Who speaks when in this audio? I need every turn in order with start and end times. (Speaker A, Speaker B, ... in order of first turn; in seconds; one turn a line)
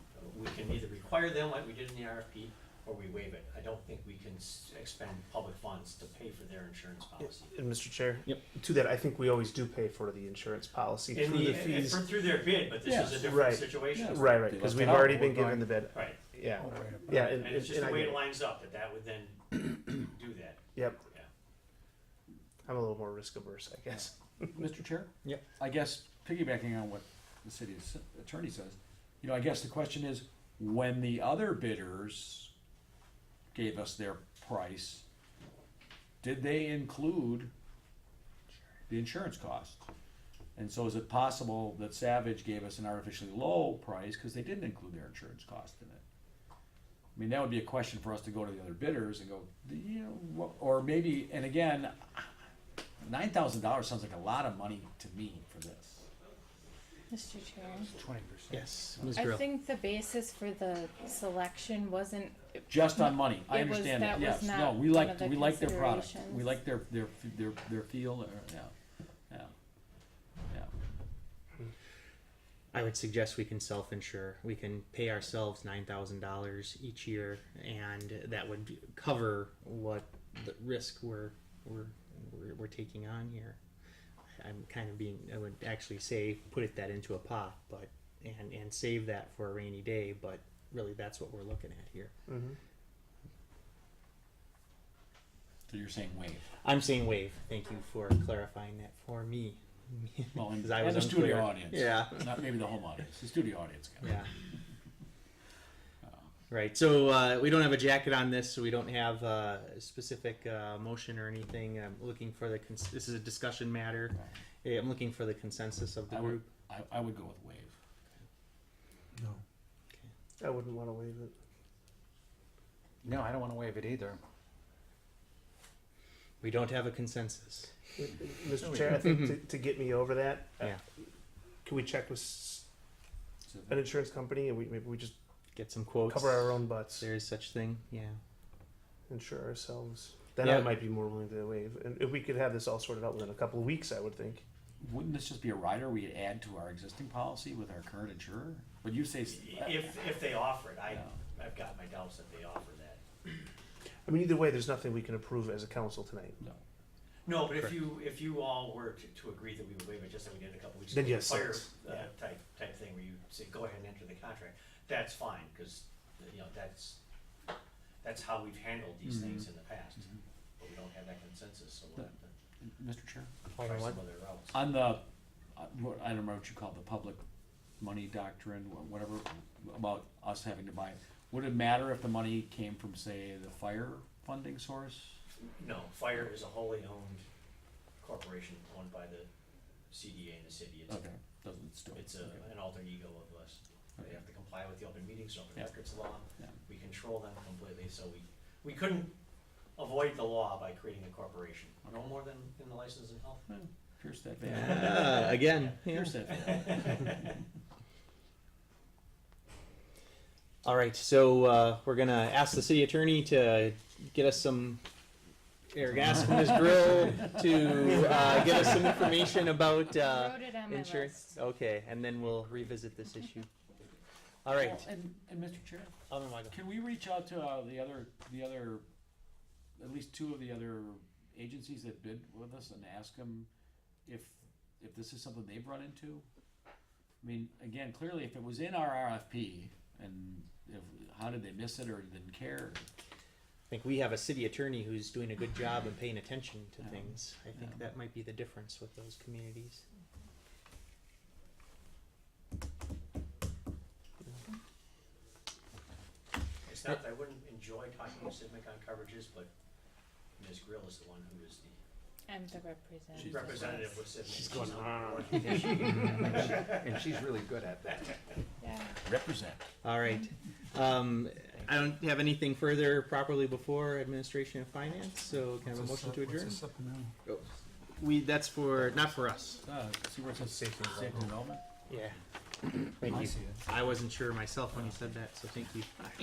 Speaker A: 0.1-7.5
Speaker B: 7.5-12.1
Speaker A: 11.1-14.5
Speaker C: 11.3-11.8
Speaker D: 12.8-15.7
Speaker B: 13.2-18.2
Speaker A: 15.9-16.2
Speaker E: 16.6-17.1
Speaker A: 17.1-21.3
Speaker B: 20.7-21.0
Speaker B: 22.6-24.4
Speaker D: 23.9-32.5
Speaker D: 33.5-35.0
Speaker D: 36.2-37.5
Speaker D: 38.9-39.9
Speaker D: 40.5-46.0
Speaker D: 47.1-52.3
Speaker D: 53.0-56.1
Speaker F: 57.1-57.9
Speaker E: 58.0-58.6
Speaker C: 58.5-59.4
Speaker F: 59.1-66.5
Speaker D: 62.7-68.7
Speaker C: 72.7-83.6
Speaker C: 84.3-92.1
Speaker B: 92.3-92.6
Speaker D: 95.7-96.4
Speaker C: 96.6-102.3
Speaker D: 100.3-104.2
Speaker C: 104.0-104.3
Speaker C: 106.5-116.5
Speaker D: 116.1-117.7
Speaker B: 120.4-121.3
Speaker E: 123.0-124.2
Speaker C: 126.4-127.7
Speaker B: 127.9-130.8
Speaker E: 128.6-129.0
Speaker C: 129.0-129.4
Speaker B: 131.6-132.7
Speaker D: 133.5-133.8
Speaker B: 133.7-135.2
Speaker C: 135.5-138.2
Speaker B: 136.1-137.1
Speaker B: 139.1-144.4
Speaker C: 140.4-140.8
Speaker D: 144.8-150.2
Speaker A: 149.3-153.0
Speaker D: 150.9-151.2
Speaker B: 154.1-156.4
Speaker A: 157.2-167.0
Speaker B: 160.9-162.1
Speaker A: 168.0-170.1
Speaker D: 169.0-169.4
Speaker A: 170.6-172.3
Speaker D: 172.6-173.3
Speaker C: 173.6-173.9
Speaker A: 173.6-174.6
Speaker D: 174.5-175.0
Speaker D: 175.6-177.2
Speaker D: 177.8-185.2
Speaker A: 185.6-187.2
Speaker A: 188.0-189.3
Speaker A: 189.9-191.0
Speaker D: 190.9-192.4
Speaker A: 191.9-199.1
Speaker A: 199.8-203.5
Speaker D: 203.5-207.3
Speaker C: 204.4-206.2
Speaker A: 204.5-207.3
Speaker C: 210.6-214.8
Speaker C: 215.7-223.5
Speaker D: 217.6-218.2
Speaker F: 220.0-221.3
Speaker C: 224.4-224.9
Speaker D: 224.6-225.9
Speaker C: 226.1-226.6
Speaker D: 226.5-228.8
Speaker D: 229.8-233.5
Speaker D: 234.1-236.3
Speaker D: 237.2-242.9
Speaker C: 243.7-249.8
Speaker D: 246.8-247.9
Speaker A: 256.6-259.5
Speaker A: 260.4-261.8
Speaker F: 262.3-263.4
Speaker A: 263.1-266.8
Speaker D: 263.1-264.0
Speaker C: 265.5-266.1
Speaker D: 265.8-268.0
Speaker E: 266.1-267.8
Speaker F: 268.6-269.0
Speaker D: 269.0-269.7
Speaker C: 269.8-276.6
Speaker E: 275.7-277.1
Speaker C: 277.9-279.6
Speaker D: 278.8-279.1
Speaker D: 279.6-281.6
Speaker B: 280.4-281.3
Speaker C: 281.9-286.0
Speaker E: 283.1-283.6